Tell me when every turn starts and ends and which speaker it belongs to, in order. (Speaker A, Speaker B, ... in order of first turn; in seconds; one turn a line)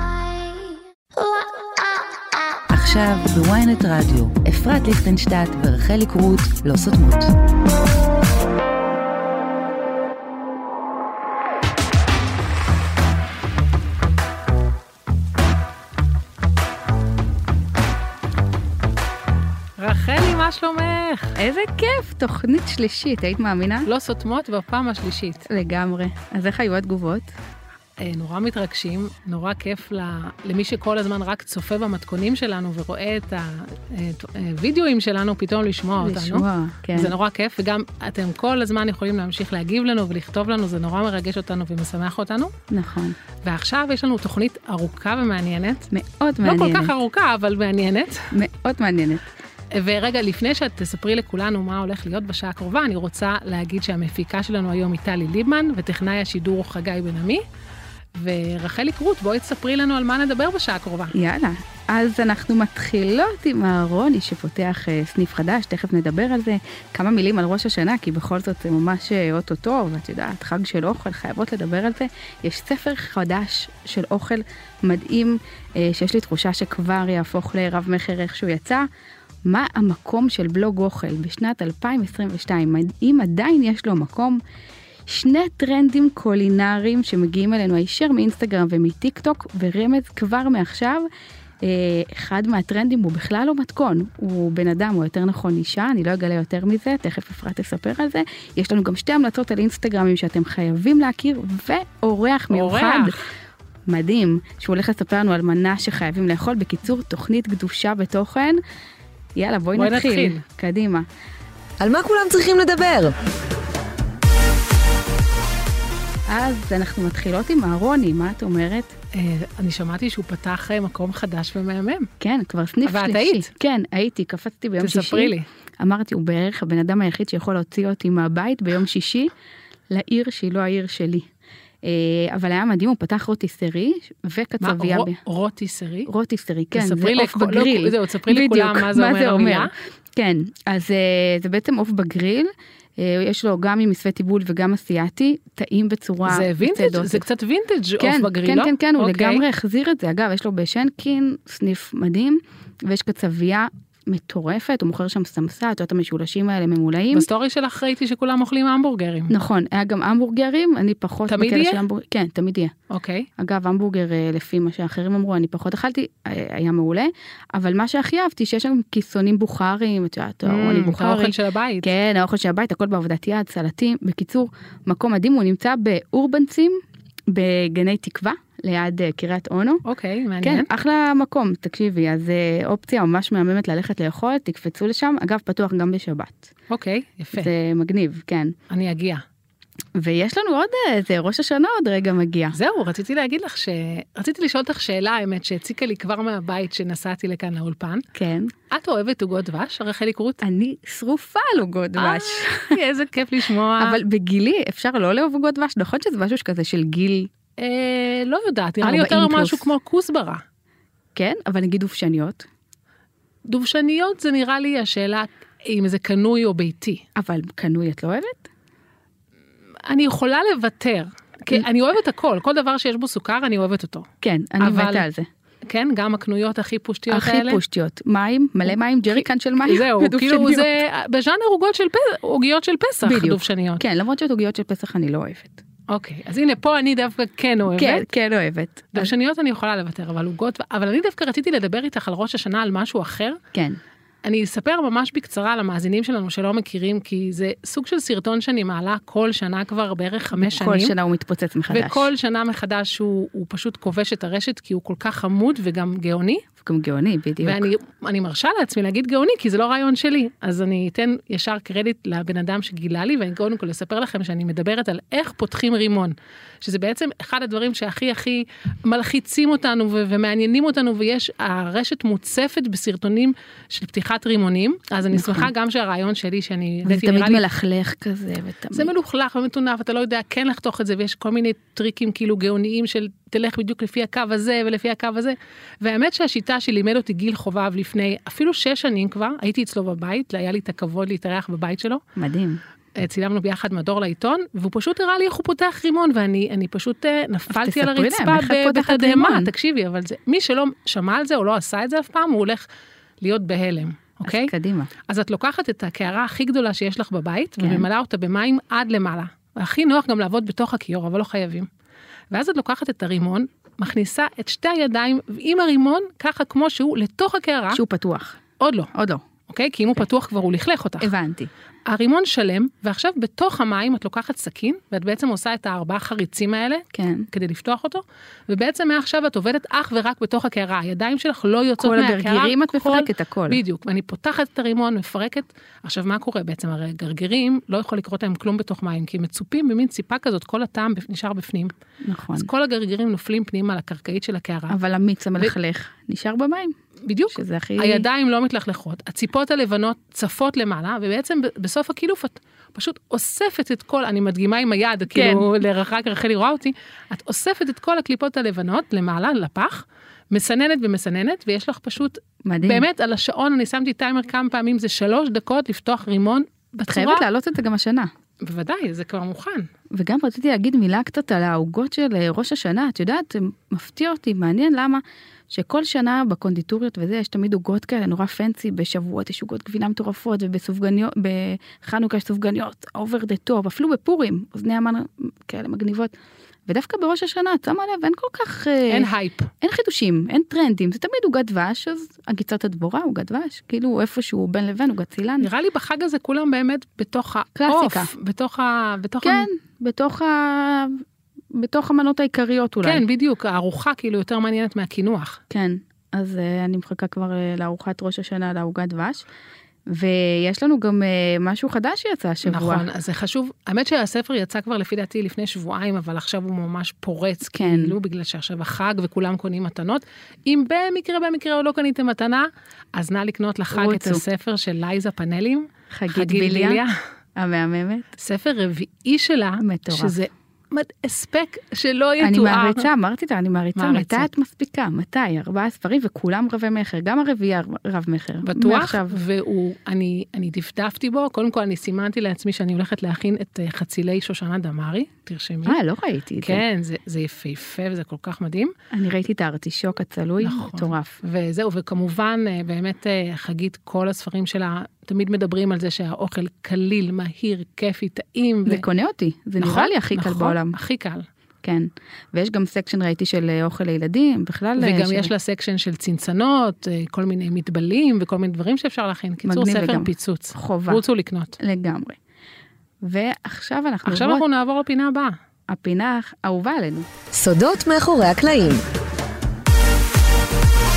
Speaker A: 2.8-7.3
Speaker B: 19.8-21.4
Speaker C: 21.4-23.9
Speaker B: 23.9-25.5
Speaker C: 25.5-27.3
Speaker B: 28.0-42.5
Speaker C: 36.0-37.1
Speaker C: 42.7-43.2
Speaker B: 43.5-45.9
Speaker C: 45.9-46.9
Speaker B: 46.4-48.3
Speaker C: 48.3-49.3
Speaker B: 49.8-57.4
Speaker B: 58.2-61.1
Speaker C: 61.1-78.9
Speaker C: 79.5-84.4
Speaker C: 85.1-91.1
Speaker C: 91.6-103.2
Speaker B: 102.5-103.2
Speaker C: 103.9-108.6
Speaker C: 109.4-111.1
Speaker B: 109.8-110.4
Speaker D: 111.8-113.1
Speaker C: 116.3-118.9
Speaker B: 119.2-122.1
Speaker C: 122.2-129.3
Speaker B: 122.8-123.5
Speaker B: 124.8-125.5
Speaker C: 129.9-131.3
Speaker C: 131.8-135.2
Speaker B: 134.6-136.1
Speaker C: 136.1-147.3
Speaker B: 136.7-139.7
Speaker B: 146.2-149.4
Speaker C: 148.0-157.3
Speaker B: 157.1-159.3
Speaker C: 159.3-162.7
Speaker B: 161.3-161.8
Speaker B: 162.9-163.3
Speaker C: 163.4-179.8
Speaker B: 170.4-171.9
Speaker B: 179.9-180.7
Speaker C: 180.4-186.5
Speaker B: 186.7-187.5
Speaker C: 187.3-188.5
Speaker B: 188.7-189.2
Speaker C: 189.9-192.6
Speaker B: 192.5-198.1
Speaker C: 198.1-198.5
Speaker B: 198.7-200.4
Speaker C: 200.4-202.8
Speaker B: 202.0-204.0
Speaker C: 203.8-207.3
Speaker B: 207.6-210.4
Speaker C: 208.8-209.7
Speaker C: 211.2-212.5
Speaker B: 213.5-217.0
Speaker C: 217.2-218.5
Speaker B: 219.9-224.1
Speaker C: 224.2-225.3
Speaker B: 224.6-225.0
Speaker B: 225.7-227.6
Speaker C: 227.1-230.7
Speaker B: 229.1-233.8
Speaker C: 233.0-235.6
Speaker B: 235.9-238.1
Speaker C: 237.8-239.1
Speaker B: 238.9-243.4
Speaker C: 243.5-243.8
Speaker B: 244.2-250.9
Speaker C: 250.4-252.1
Speaker B: 251.7-256.4
Speaker C: 256.6-257.7
Speaker B: 257.4-277.4
Speaker C: 275.1-275.5
Speaker C: 276.9-278.9
Speaker B: 278.7-292.0
Speaker C: 292.2-292.6
Speaker B: 293.0-302.6
Speaker C: 297.5-299.5
Speaker B: 303.2-304.5
Speaker C: 304.2-304.9
Speaker B: 305.1-311.7
Speaker C: 307.6-307.9
Speaker B: 312.3-317.8
Speaker C: 317.7-318.4
Speaker B: 318.6-318.9
Speaker C: 318.9-319.2
Speaker B: 319.5-321.1
Speaker C: 321.0-321.5
Speaker B: 321.9-341.7
Speaker C: 326.9-327.3
Speaker C: 331.8-333.6
Speaker C: 342.0-342.5
Speaker B: 342.4-344.8
Speaker C: 344.7-346.8
Speaker B: 347.1-367.3
Speaker C: 347.3-348.1
Speaker C: 355.1-355.5
Speaker C: 362.4-362.9
Speaker C: 366.9-368.1
Speaker B: 368.4-369.7
Speaker C: 369.9-386.1
Speaker C: 386.7-389.1
Speaker B: 388.9-389.5
Speaker C: 389.6-395.5
Speaker B: 395.4-399.5
Speaker C: 397.6-398.1
Speaker C: 399.2-403.0
Speaker B: 402.8-405.4
Speaker C: 405.5-409.2
Speaker C: 409.9-412.9
Speaker B: 412.4-426.9
Speaker C: 417.5-418.0
Speaker C: 423.7-424.2
Speaker C: 425.9-426.8
Speaker C: 427.4-428.1
Speaker B: 428.2-432.9
Speaker C: 429.6-430.2
Speaker C: 432.2-439.2
Speaker B: 433.8-434.3
Speaker B: 438.4-445.8
Speaker C: 445.6-446.6
Speaker B: 446.4-448.7
Speaker C: 448.9-451.2
Speaker B: 450.4-458.8
Speaker C: 458.7-460.8
Speaker B: 459.6-461.3
Speaker C: 461.6-465.3
Speaker B: 464.8-471.6
Speaker C: 469.4-471.0
Speaker C: 471.6-472.2
Speaker C: 473.0-474.4
Speaker B: 474.1-475.4
Speaker C: 475.7-477.1
Speaker D: 477.3-478.8